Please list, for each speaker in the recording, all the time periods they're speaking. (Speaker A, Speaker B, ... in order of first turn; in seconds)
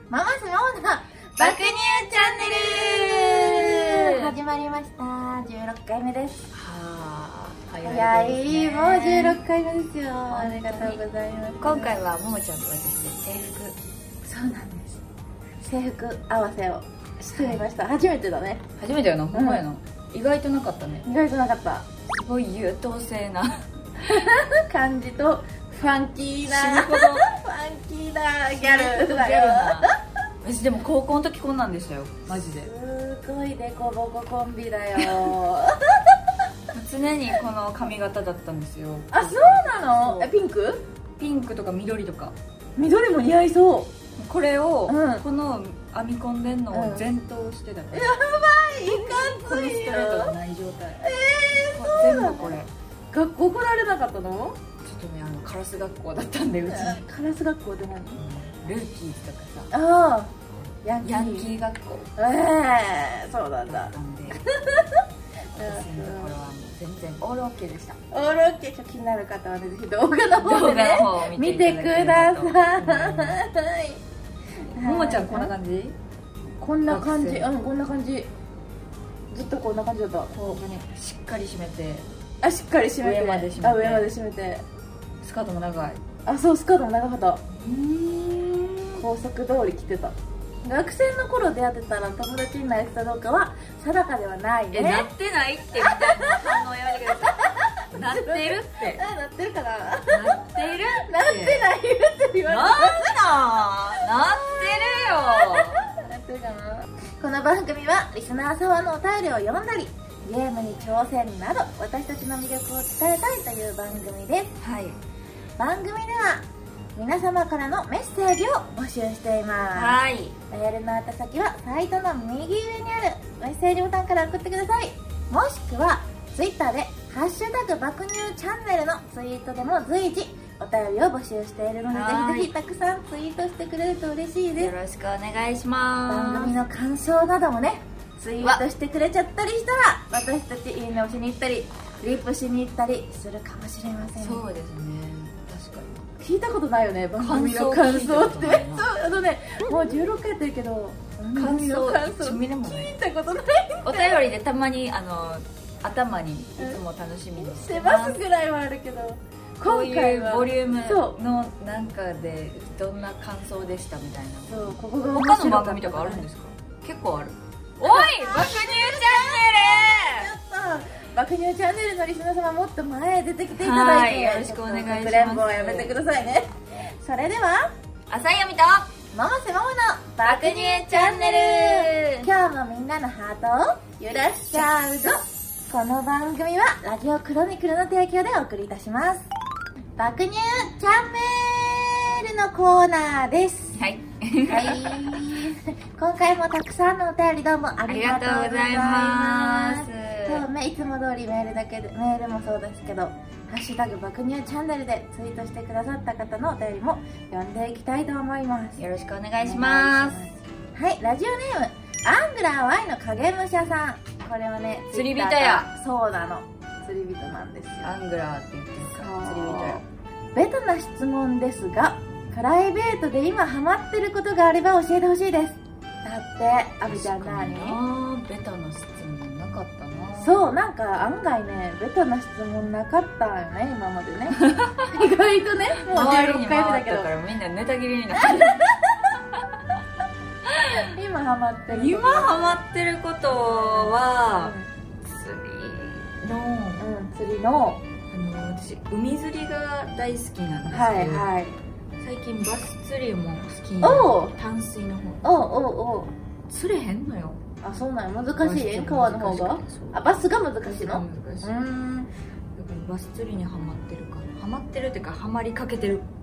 Speaker A: 0.1-6.5, 7.8-11.9, 14.2-15.0, 15.6-18.6, 19.3-19.6, 21.0-21.9, 24.1-30.0, 32.3-36.0, 39.1-40.8, 42.8-43.9, 44.9-45.2, 46.7-47.1, 47.9-50.3, 51.0-52.5, 53.1-54.6, 56.6-58.2, 59.7-61.5, 62.2-65.0, 65.6-66.3, 68.1-74.0, 74.7-75.5, 76.6-78.3, 79.3-80.3, 82.4-84.6, 86.2-87.4, 88.9-95.1, 95.8-96.6, 98.0-103.2, 104.2-114.5, 115.6-116.4, 117.0-134.7, 136.1-144.4, 146.2-154.2, 157.4-161.2, 164.5-166.2, 167.8-177.7, 179.1-189.3, 190.0-193.8, 194.4-208.8, 209.4-217.9, 218.9-219.8, 220.3-227.8, 230.2-237.1, 238.2-238.7, 240.8-242.4, 243.4-244.7, 246.8-247.8, 250.7-251.6, 253.8-254.3, 255.2-256.1, 257.6-262.1
Speaker B: 1.4-4.3, 6.5-9.4, 10.3-11.0, 11.6-13.8, 17.4-17.7, 18.8-21.1, 22.2-24.1, 26.4-27.2, 28.5-32.7, 35.0-35.3, 36.7-40.3, 41.2-42.3, 44.2-48.2, 48.9-51.0, 51.7-52.7, 54.8-57.0, 58.1-59.7, 61.0-62.0, 63.6-64.4, 65.5-68.0, 70.4-73.4, 74.7-76.0, 76.9-77.5, 80.3-82.1, 83.0-84.1, 85.2-86.0, 87.5-89.0, 94.7-99.0, 100.1-101.6, 102.5-105.8, 114.6-115.0, 119.7-120.3, 131.9-132.5, 134.6-136.5, 144.2-146.0, 147.2-148.8, 151.3-152.9, 153.8-158.2, 159.6-170.3, 173.5-175.9, 178.1-178.9, 180.2-182.3, 184.5-185.1, 193.8-195.2, 197.9-200.4, 208.8-210.2, 214.9-215.7, 217.8-219.8, 226.8-230.4, 234.4-234.9, 235.9-238.7, 240.5-240.9, 241.7-246.9, 248.1-251.3, 252.0-255.3, 256.5-257.4, 258.4-260.0, 260.6-261.5, 262.5-266.1